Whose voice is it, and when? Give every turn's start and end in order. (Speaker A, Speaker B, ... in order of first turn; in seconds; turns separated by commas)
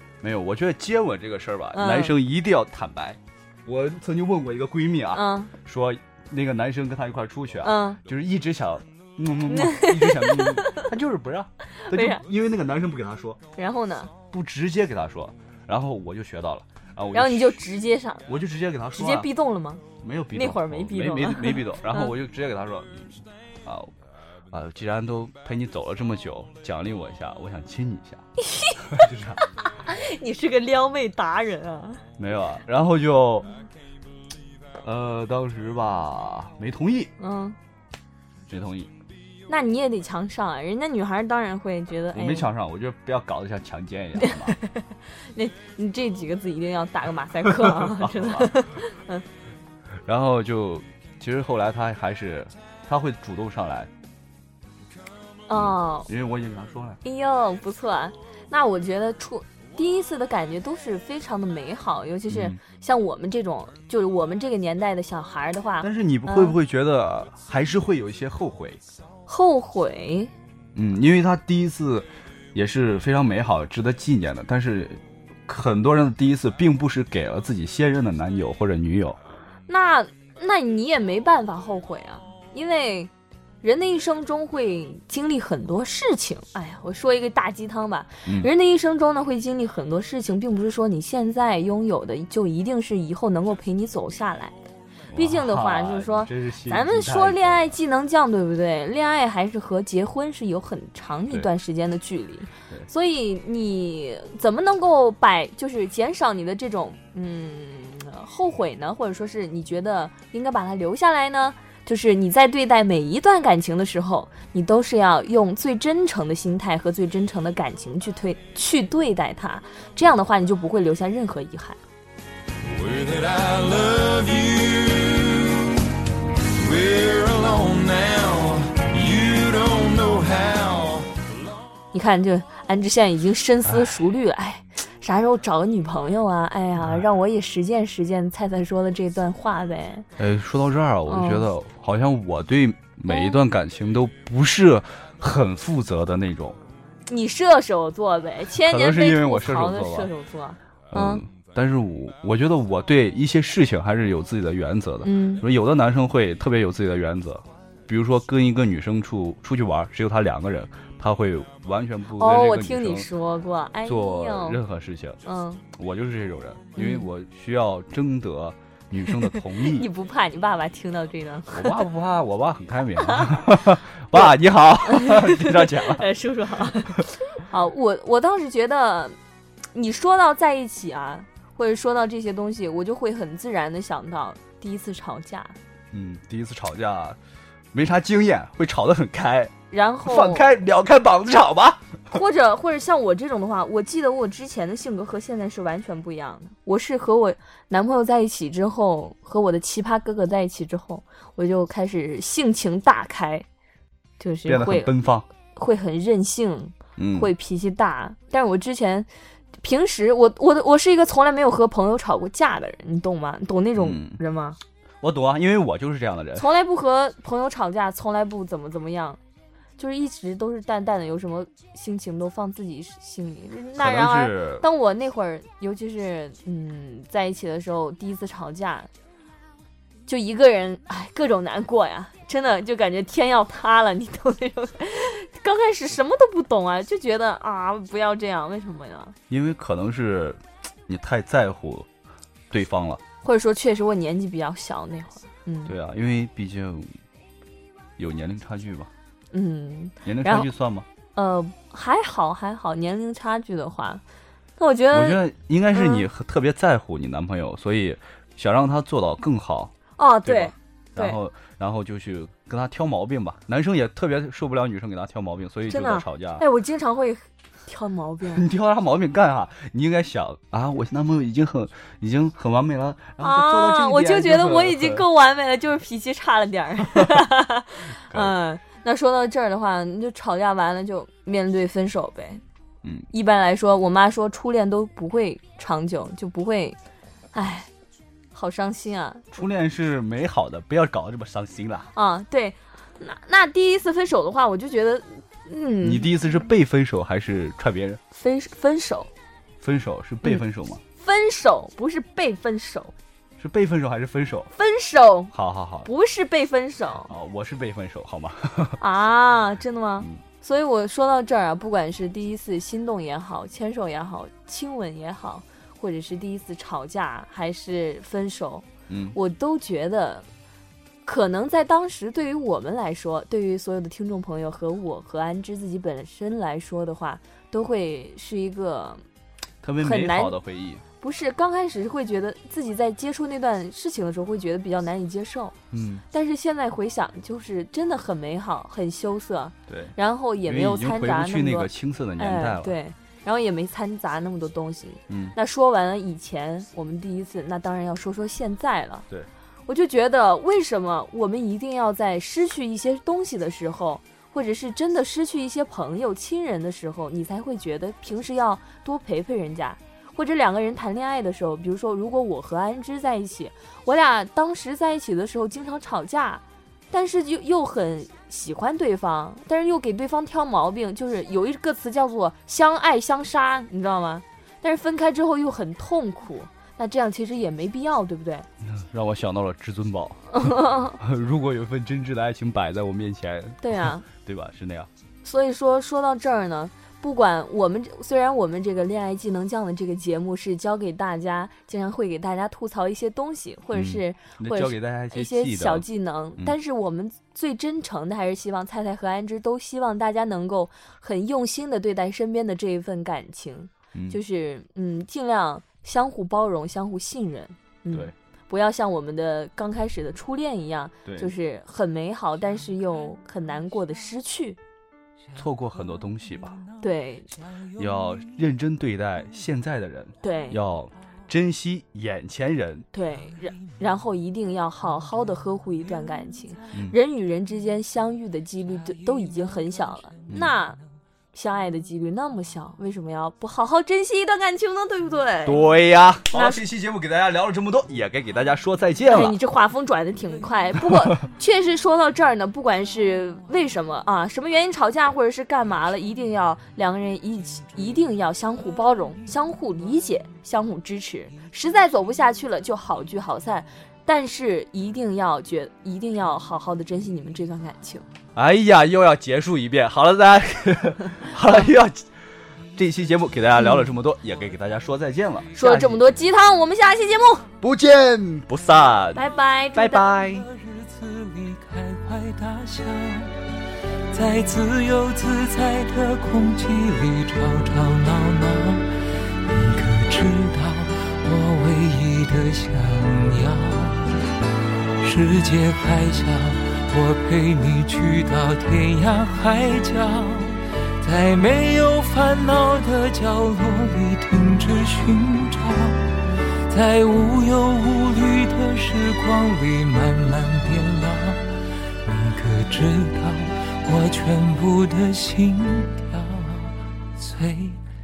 Speaker A: 0.2-13.4, Speaker B: 1.7-2.2, Speaker B: 5.1-5.5, Speaker B: 7.6-8.0, Speaker B: 9.5-10.9, Speaker B: 11.8-12.2, Speaker B: 13.6-14.1, Speaker A: 14.3-17.6, Speaker B: 17.1-18.3, Speaker A: 18.3-19.3, Speaker B: 18.9-19.8, Speaker A: 20.0-23.9, Speaker B: 20.4-22.1, Speaker A: 24.5-28.2, Speaker B: 28.4-29.0, Speaker A: 28.8-29.4, Speaker B: 29.6-32.0, Speaker A: 32.2-33.6, Speaker A: 34.8-37.1, Speaker B: 37.2-37.6, Speaker A: 38.5-38.9, Speaker B: 39.5-42.5, Speaker A: 42.1-44.6, Speaker B: 44.2-49.2, Speaker A: 47.5-48.5, Speaker A: 50.1-53.9, Speaker B: 55.5-56.1, Speaker A: 55.5-57.0, Speaker B: 57.0-66.6, Speaker A: 62.3-62.6, Speaker A: 65.8-68.8, Speaker B: 69.3-70.3, Speaker A: 70.8-79.2, Speaker B: 79.7-94.5, Speaker A: 88.2-88.5, Speaker A: 95.1-97.7, Speaker B: 95.2-121.8, Speaker C: 122.8-125.8, Speaker C: 126.6-131.1, Speaker B: 131.9-140.1, Speaker A: 133.7-133.9, Speaker A: 140.2-146.6, Speaker B: 141.1-141.5, Speaker B: 143.1-143.4, Speaker B: 147.1-151.2, Speaker A: 148.6-150.1, Speaker A: 150.9-163.1, Speaker B: 155.0-155.4, Speaker B: 162.2-164.6, Speaker A: 163.9-165.2, Speaker B: 165.2-165.6, Speaker A: 165.8-169.9, Speaker B: 166.8-167.1, Speaker B: 169.3-171.8, Speaker A: 171.5-176.1, Speaker B: 173.1-173.4, Speaker B: 174.9-179.2, Speaker B: 179.8-185.6, Speaker A: 185.9-187.2, Speaker A: 187.7-189.5, Speaker B: 189.7-190.5, Speaker A: 190.1-192.0, Speaker B: 192.1-203.5, Speaker B: 204.2-204.9, Speaker A: 204.5-205.2, Speaker B: 205.5-209.1, Speaker A: 207.0-207.3, Speaker B: 209.6-214.6, Speaker A: 213.8-214.2, Speaker A: 215.0-216.5, Speaker B: 216.4-219.2, Speaker B: 219.8-228.9, Speaker A: 223.8-224.6, Speaker B: 230.1-239.2, Speaker A: 239.3-241.9, Speaker A: 242.5-243.0, Speaker B: 243.2-245.8, Speaker A: 245.7-246.9, Speaker A: 248.0-248.9, Speaker B: 249.3-250.5, Speaker A: 250.0-250.9, Speaker B: 251.1-254.0, Speaker B: 254.6-256.1, Speaker A: 254.9-259.7, Speaker B: 260.0-261.2, Speaker A: 260.2-266.4, Speaker B: 265.7-268.5, Speaker A: 268.3-275.1, Speaker B: 273.2-282.4, Speaker A: 278.1-278.3, Speaker A: 282.8-283.1, Speaker B: 283.1-286.8, Speaker B: 287.3-287.7, Speaker B: 288.3-289.3, Speaker A: 289.3-291.9, Speaker B: 291.9-296.1, Speaker A: 295.8-298.0, Speaker B: 298.1-299.1, Speaker A: 299.6-300.8, Speaker B: 301.0-302.9, Speaker A: 303.4-304.5, Speaker B: 304.5-305.3, Speaker A: 305.3-305.9, Speaker B: 305.8-307.1, Speaker A: 307.1-308.8, Speaker B: 308.8-320.2, Speaker A: 318.9-319.2, Speaker B: 321.1-329.0, Speaker A: 329.6-330.8, Speaker B: 329.8-330.4, Speaker B: 331.0-335.6, Speaker A: 335.7-336.1, Speaker B: 336.1-349.1, Speaker A: 339.7-342.8, Speaker A: 345.1-345.4, Speaker B: 349.7-378.5, Speaker A: 378.6-384.9, Speaker B: 380.3-381.0, Speaker B: 383.6-384.1, Speaker B: 385.2-414.6, Speaker A: 393.7-395.9, Speaker A: 403.9-404.2, Speaker A: 411.1-411.3, Speaker A: 415.4-416.6, Speaker B: 416.8-417.4, Speaker A: 417.7-422.9, Speaker B: 420.2-420.6, Speaker B: 422.9-430.8, Speaker B: 431.3-435.7, Speaker A: 435.4-439.4, Speaker B: 436.3-436.6, Speaker B: 439.1-458.1, Speaker A: 458.4-462.1, Speaker A: 462.7-466.1, Speaker B: 463.6-463.9, Speaker B: 465.5-467.5, Speaker A: 467.6-470.5, Speaker B: 469.1-470.1, Speaker D: 470.1-473.4, Speaker D: 474.1-478.9, Speaker D: 479.4-484.2, Speaker D: 485.0-501.5, Speaker D: 502.0-507.8